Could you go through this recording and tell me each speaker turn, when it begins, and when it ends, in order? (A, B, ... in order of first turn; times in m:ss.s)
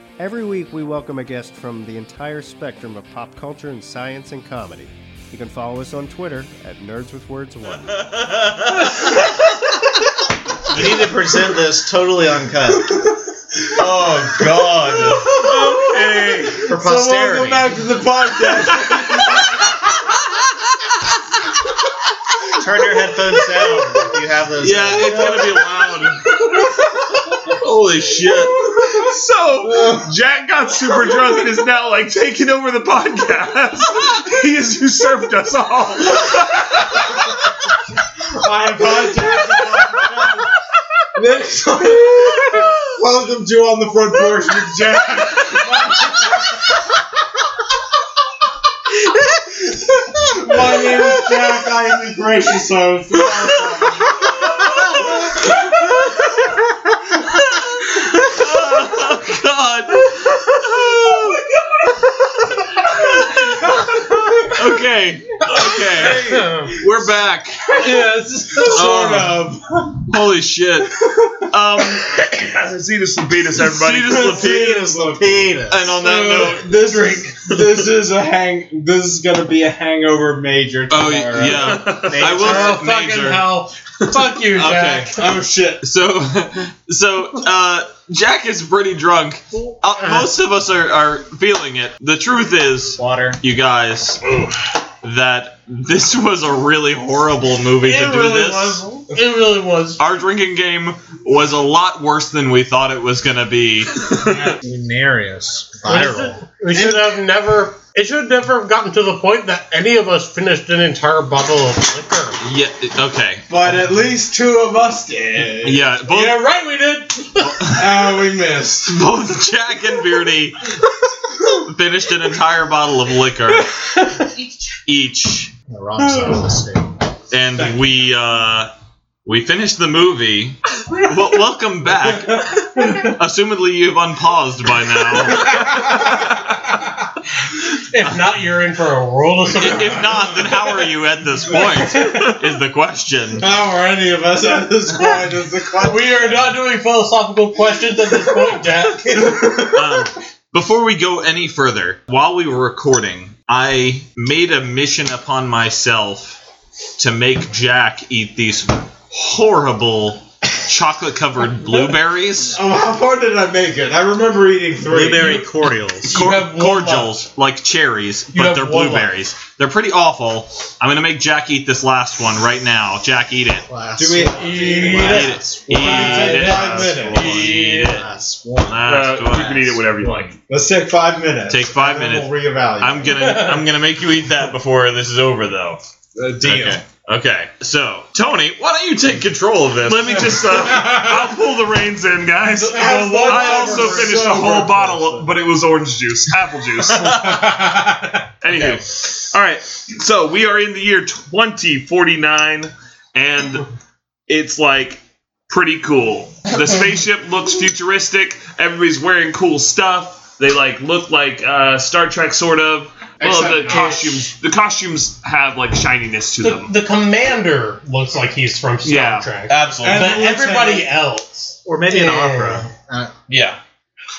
0:00.2-0:08.0 A
0:07.9-0:09.3 B
0:10.7-0:13.0 C
0:13.6-0:19.7 D
0:13.8-0:15.3 C
0:14.8-0:16.5 B
0:15.7-0:16.4 E
0:16.7-0:17.8 C
0:19.2-0:19.4 B
0:22.6-0:25.6 C
0:24.6-0:26.2 B
0:24.9-0:26.1 D
0:27.3-0:28.7 B
0:28.3-0:29.1 D
0:28.8-0:36.8 E
0:29.6-0:30.1 D
0:38.2-0:40.5 D
0:41.2-0:46.6 D
0:49.7-0:54.3 D
0:50.8-0:51.2 B
0:53.2-0:56.5 B
0:55.1-0:55.7 D
0:57.3-1:01.4 B
1:02.9-1:07.8 B
1:05.9-1:06.2 D
1:06.0-1:06.8 F
1:07.7-1:10.2 D
1:07.8-1:08.8 F
1:08.7-1:09.4 B
1:10.1-1:11.0 B
1:11.5-1:12.2 B
1:11.8-1:14.4 E
1:13.8-1:21.9 D
1:14.0-1:14.2 B
1:14.1-1:16.0 C
1:15.7-1:17.0 B
1:20.9-1:23.5 B
1:21.7-1:22.2 E
1:22.0-1:22.8 C
1:22.3-1:25.3 F
1:24.5-1:25.9 D
1:25.8-1:34.2 B
1:33.0-1:33.4 C
1:35.0-1:38.8 B
1:37.8-1:40.0 F
1:40.0-1:44.3 B
1:44.2-1:44.6 D
1:44.6-1:46.4 C
1:45.8-1:52.4 F
1:46.7-1:47.1 D
1:52.4-1:53.5 B
1:53.5-1:56.0 D
1:55.6-1:56.4 B
1:56.1-1:57.7 F
1:57.5-1:58.2 B
1:57.6-1:59.0 D
1:58.9-2:00.8 B
2:01.6-2:03.7 B
2:04.9-2:05.5 B
2:05.7-2:07.0 C
2:07.3-2:08.7 B
2:09.2-2:16.1 B
2:15.4-2:16.3 D
2:17.9-2:20.1 F
2:19.6-2:23.5 B
2:20.0-2:20.7 D
2:21.5-2:22.3 D
2:23.4-2:26.5 D
2:25.8-2:29.6 F
2:29.1-2:30.1 D
2:29.7-2:36.4 B
2:37.0-2:42.6 B
2:42.5-2:45.5 D
2:44.9-2:53.7 B
2:44.9-2:45.9 C
2:46.1-2:47.2 F
2:48.3-2:49.2 F
2:53.7-2:58.8 C
2:54.0-2:57.5 D
2:54.4-2:57.9 F
2:54.9-2:58.1 B
2:58.6-3:00.2 B
2:58.9-3:00.4 E
3:00.4-3:03.4 D
3:01.5-3:05.8 B
3:03.2-3:03.6 F
3:06.2-3:06.8 D
3:06.4-3:10.5 B
3:09.8-3:17.4 E
3:10.7-3:11.1 D
3:12.6-3:15.3 D
3:12.8-3:14.0 F
3:17.0-3:17.4 B
3:17.4-3:17.9 D
3:18.4-3:23.7 E
3:18.5-3:18.8 B
3:24.3-3:36.7 E
3:33.2-3:34.2 D
3:36.4-3:42.7 F
3:38.8-3:39.3 E
3:39.5-3:40.2 B
3:39.8-3:40.9 D
3:41.6-3:43.1 C
3:43.3-3:43.6 B